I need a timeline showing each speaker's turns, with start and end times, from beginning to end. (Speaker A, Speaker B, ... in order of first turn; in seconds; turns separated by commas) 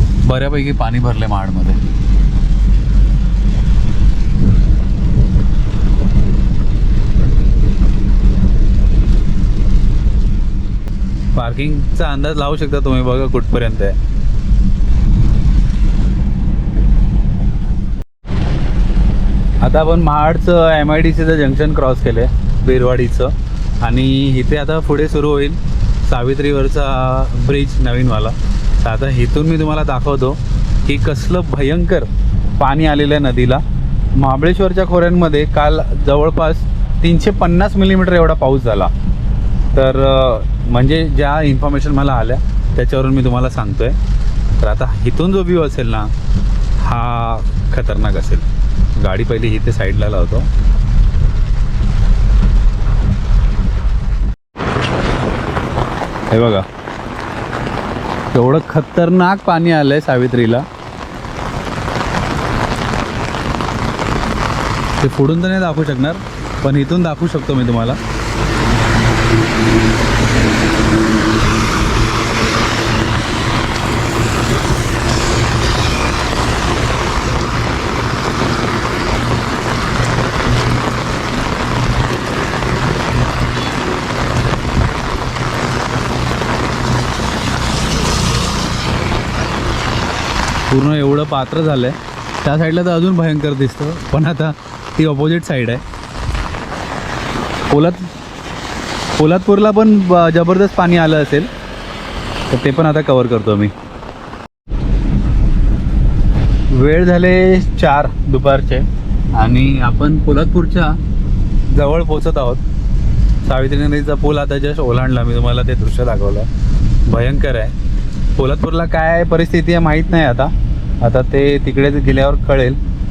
Speaker A: 0.2-1.8, Speaker A: 11.3-14.0, Speaker A: 19.6-33.6, Speaker A: 34.1-38.9, Speaker A: 39.7-44.0, Speaker A: 44.6-46.1, Speaker A: 46.8-50.5, Speaker A: 56.3-56.6, Speaker A: 58.3-60.6, Speaker A: 65.0-68.0, Speaker A: 90.7-95.8, Speaker A: 97.7-98.1, Speaker A: 99.1-101.5, Speaker A: 102.5-103.7, Speaker A: 106.7-111.0, Speaker A: 111.7-112.6, Speaker A: 113.4-116.5, Speaker A: 117.0-117.8, Speaker A: 118.3-122.8